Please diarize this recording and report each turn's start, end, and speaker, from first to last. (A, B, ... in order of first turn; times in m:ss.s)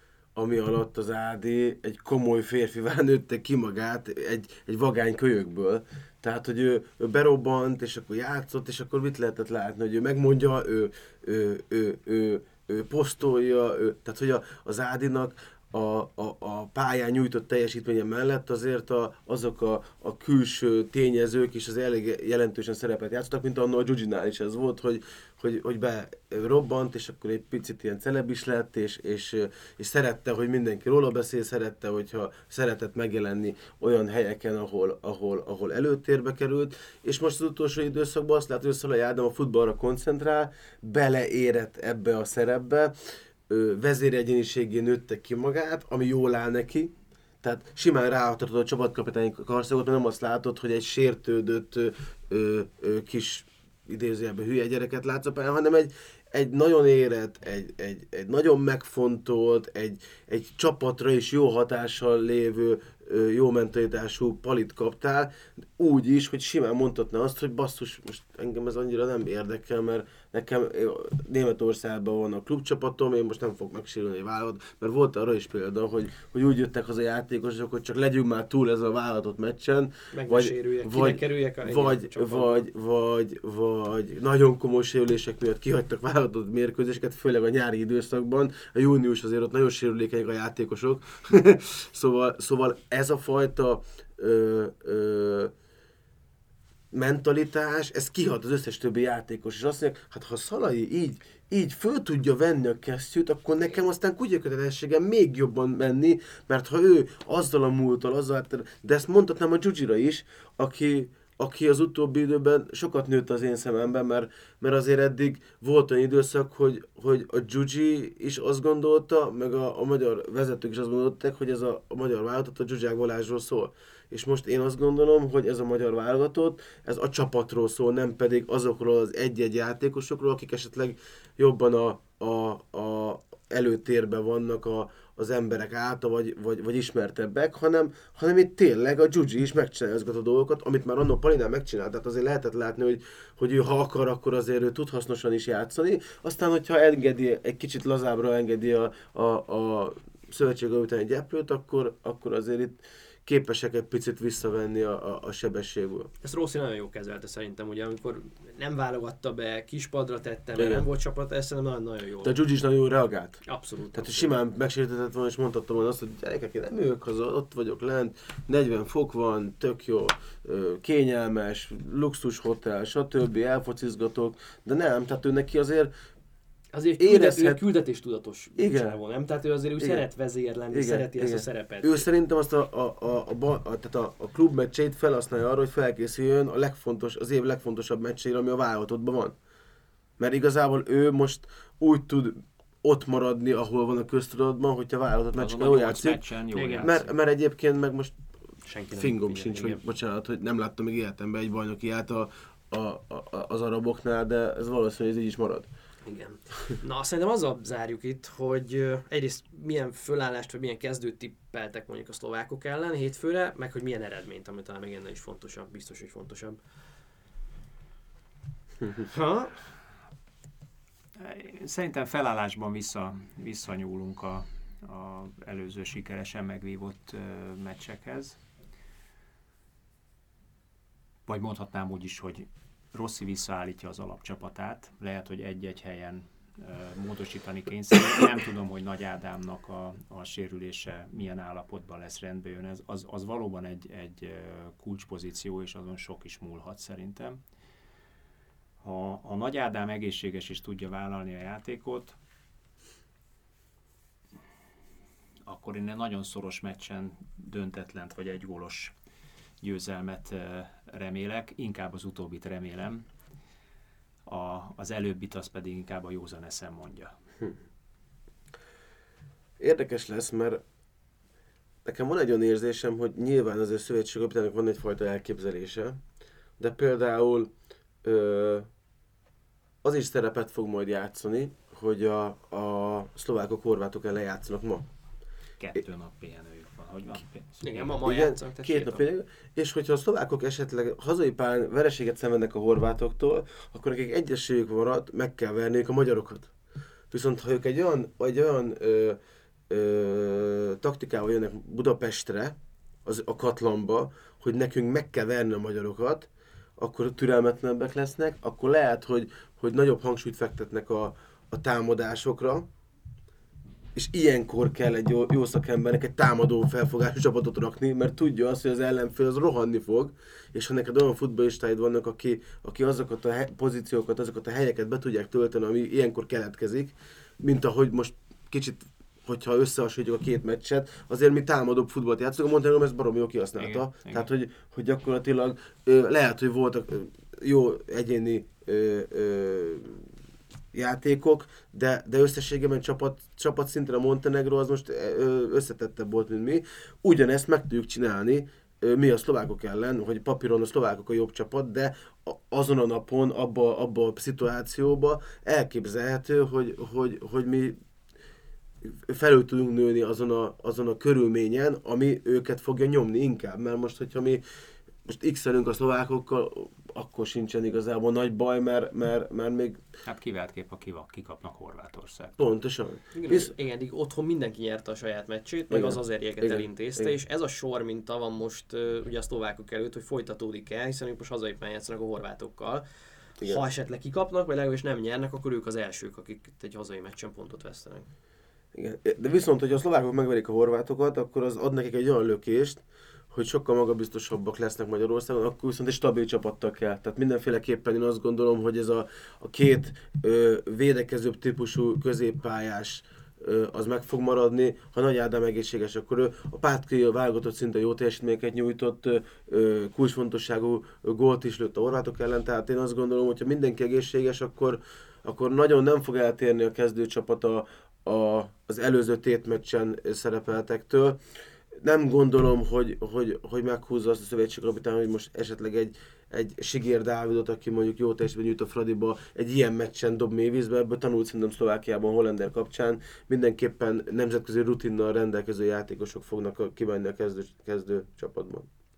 0:00.4-0:42.9 A
0:43.5-1:35.5 A
1:20.1-1:22.7 B
1:36.9-2:36.1 A
2:36.2-2:42.4 B
2:40.6-2:40.8 A
2:42.2-2:43.4 A
2:43.5-2:44.4 B
2:43.9-2:55.9 A
2:56.7-3:02.1 B
2:57.0-2:57.6 A
2:58.6-2:59.0 A
2:59.8-3:00.0 A
3:00.7-3:09.4 A
3:10.2-3:16.2 A
3:15.4-3:17.1 C
3:16.5-3:16.9 B
3:16.8-3:18.2 A
3:18.6-3:19.8 B
3:18.9-3:25.7 A
3:26.1-3:36.6 B
3:38.9-3:39.6 B
3:41.2-3:48.4 C
3:51.3-4:07.4 C
4:08.8-4:12.2 C
4:15.5-4:18.9 C
4:19.6-4:23.0 C
4:24.3-4:27.1 C
4:29.6-4:30.6 A
4:31.8-4:36.0 A
4:36.6-4:38.7 A
4:39.8-4:44.9 A
4:45.6-4:47.9 C
4:47.6-4:49.0 B
4:48.0-4:56.5 A
4:57.1-4:59.2 A
4:59.7-5:12.7 A
5:14.0-5:40.1 A
5:33.6-5:34.3 C
5:40.7-5:57.8 A
5:58.8-6:04.4 A
6:05.0-6:09.8 A
6:10.0-6:12.4 C
6:12.4-6:13.6 A
6:13.1-6:22.8 B
6:15.7-6:17.1 A
6:23.4-6:28.1 B
6:28.7-7:01.2 A
7:01.8-7:18.7 A